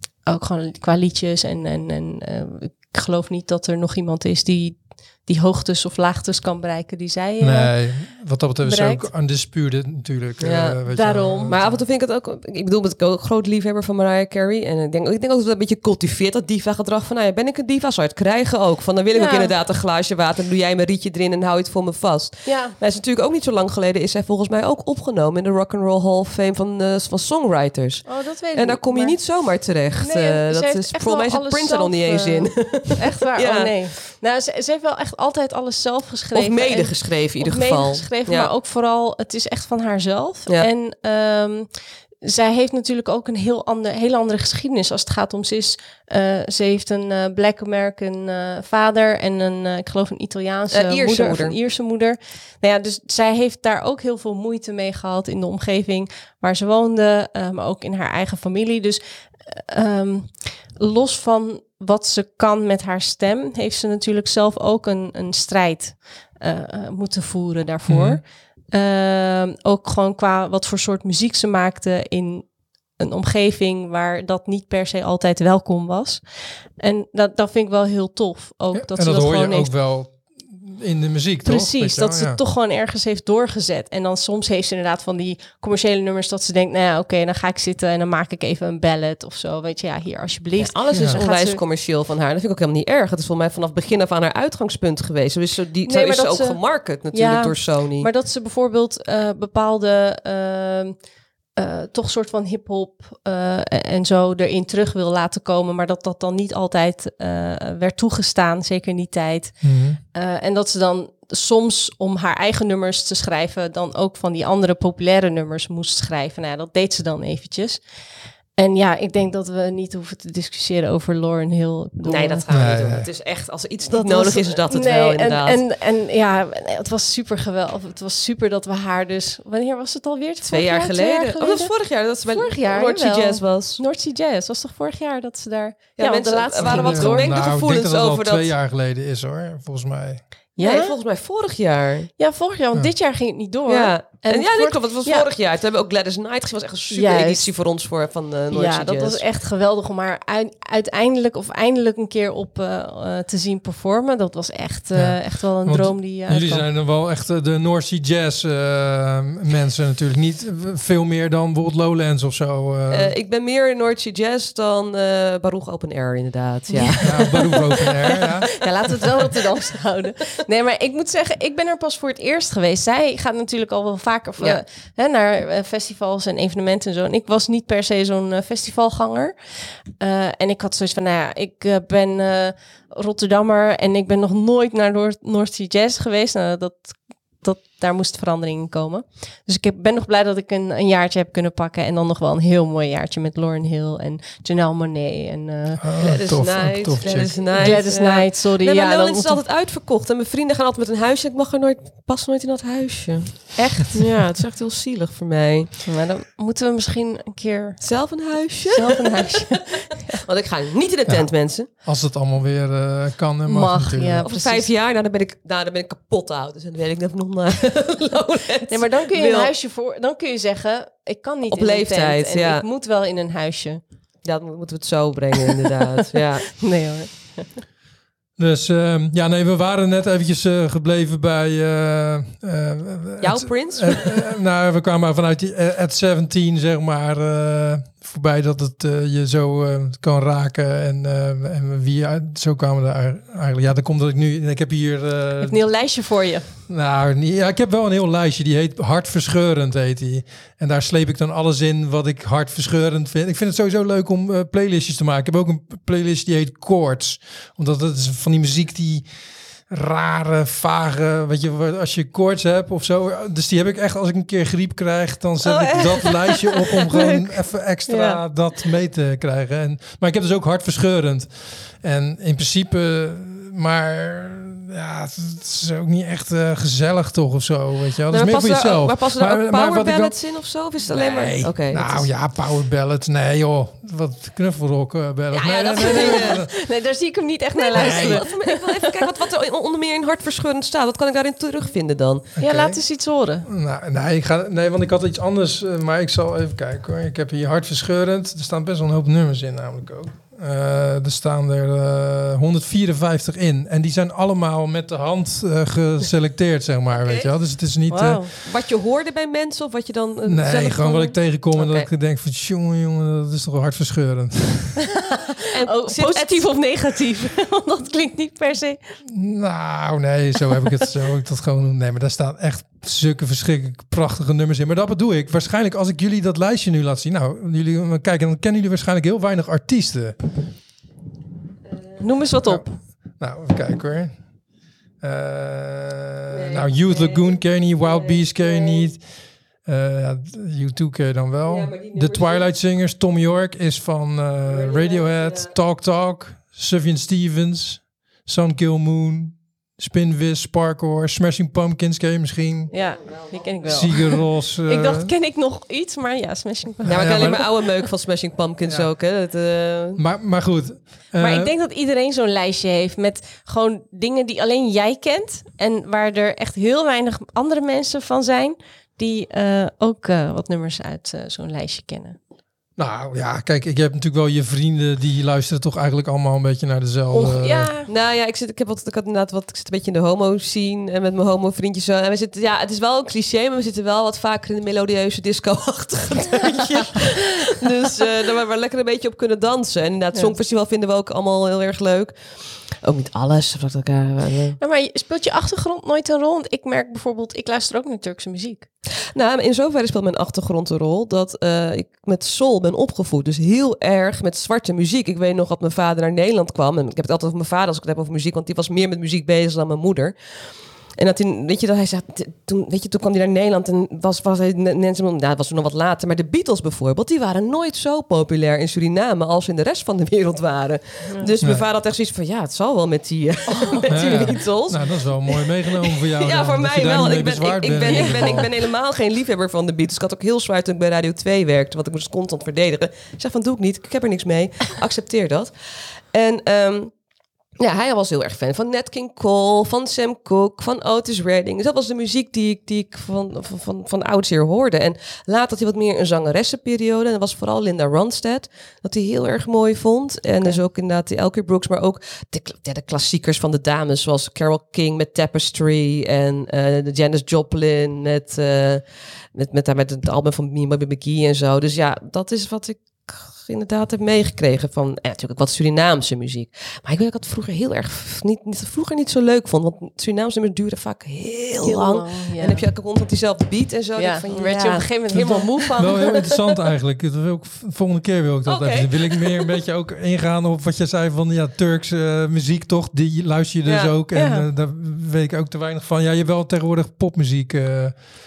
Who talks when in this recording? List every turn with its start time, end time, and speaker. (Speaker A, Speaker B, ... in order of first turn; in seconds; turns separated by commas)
Speaker A: 0.3-7.8, Speaker B: 7.4-11.8, Speaker A: 8.6-9.1, Speaker C: 10.4-33.7, Speaker A: 10.9-11.6, Speaker A: 19.1-19.5, Speaker A: 22.4-22.8, Speaker A: 28.0-29.2, Speaker A: 30.0-79.7, Speaker C: 36.3-38.5, Speaker C: 50.7-51.6, Speaker B: 67.9-68.2, Speaker B: 78.7-82.4, Speaker A: 81.4-91.6, Speaker C: 90.6-98.1, Speaker A: 95.8-101.0, Speaker A: 101.5-117.8, Speaker B: 109.6-110.0, Speaker A: 118.5-122.4, Speaker C: 122.0-125.6, Speaker B: 122.5-123.1, Speaker A: 123.9-137.5, Speaker C: 130.4-133.8, Speaker C: 136.0-138.5, Speaker B: 136.6-140.2, Speaker A: 140.6-140.9, Speaker C: 140.6-142.1, Speaker A: 142.2-145.3, Speaker C: 143.7-149.2, Speaker A: 146.9-147.5, Speaker A: 148.5-156.6, Speaker B: 154.9-163.1, Speaker C: 162.9-168.1, Speaker A: 166.7-196.0, Speaker B: 167.0-168.6, Speaker B: 195.8-197.8, Speaker C: 196.0-205.7, Speaker A: 196.5-199.4, Speaker A: 205.9-208.0, Speaker C: 207.8-209.6, Speaker A: 208.7-210.2, Speaker C: 210.2-211.7, Speaker B: 211.1-214.2, Speaker A: 213.5-214.7, Speaker C: 214.2-219.5, Speaker A: 218.7-223.8, Speaker C: 221.5-222.6, Speaker C: 224.2-226.5, Speaker A: 226.6-227.6, Speaker B: 228.4-245.6, Speaker C: 233.2-234.1, Speaker A: 245.4-246.4, Speaker B: 246.7-259.1, Speaker B: 259.7-280.2, Speaker A: 265.4-267.3, Speaker A: 267.9-268.2, Speaker C: 278.1-282.1, Speaker B: 280.8-286.5, Speaker C: 285.3-286.4, Speaker A: 285.8-289.0, Speaker C: 287.5-292.3, Speaker B: 287.7-288.2, Speaker B: 292.4-292.8, Speaker A: 292.4-293.5, Speaker B: 293.4-308.3, Speaker C: 306.9-307.3, Speaker A: 307.9-308.3, Speaker C: 308.4-311.9, Speaker B: 310.2-314.9, Speaker C: 315.5-316.5, Speaker A: 315.6-318.8, Speaker B: 319.1-330.2, Speaker A: 332.0-332.8, Speaker B: 332.4-334.2, Speaker B: 335.0-352.7, Speaker C: 336.3-338.9, Speaker C: 341.4-342.5, Speaker C: 344.4-345.5, Speaker A: 352.7-357.6, Speaker C: 353.0-353.9, Speaker B: 353.6-355.1, Speaker B: 356.8-357.5, Speaker C: 356.9-360.0, Speaker B: 358.6-358.9, Speaker B: 360.0-361.5, Speaker A: 361.1-372.2, Speaker B: 372.8-377.7, Speaker A: 377.1-377.9, Speaker C: 377.9-394.6, Speaker A: 394.6-398.7, Speaker C: 399.1-410.1, Speaker C: 411.0-435.5, Speaker A: 423.5-424.3, Speaker B: 423.9-428.5, Speaker A: 427.8-428.5, Speaker C: 436.1-436.9, Speaker C: 437.6-475.7, Speaker A: 471.6-472.6, Speaker A: 474.0-476.4, Speaker B: 475.1-488.0, Speaker A: 478.5-478.8, Speaker C: 483.6-483.9, Speaker A: 484.1-484.4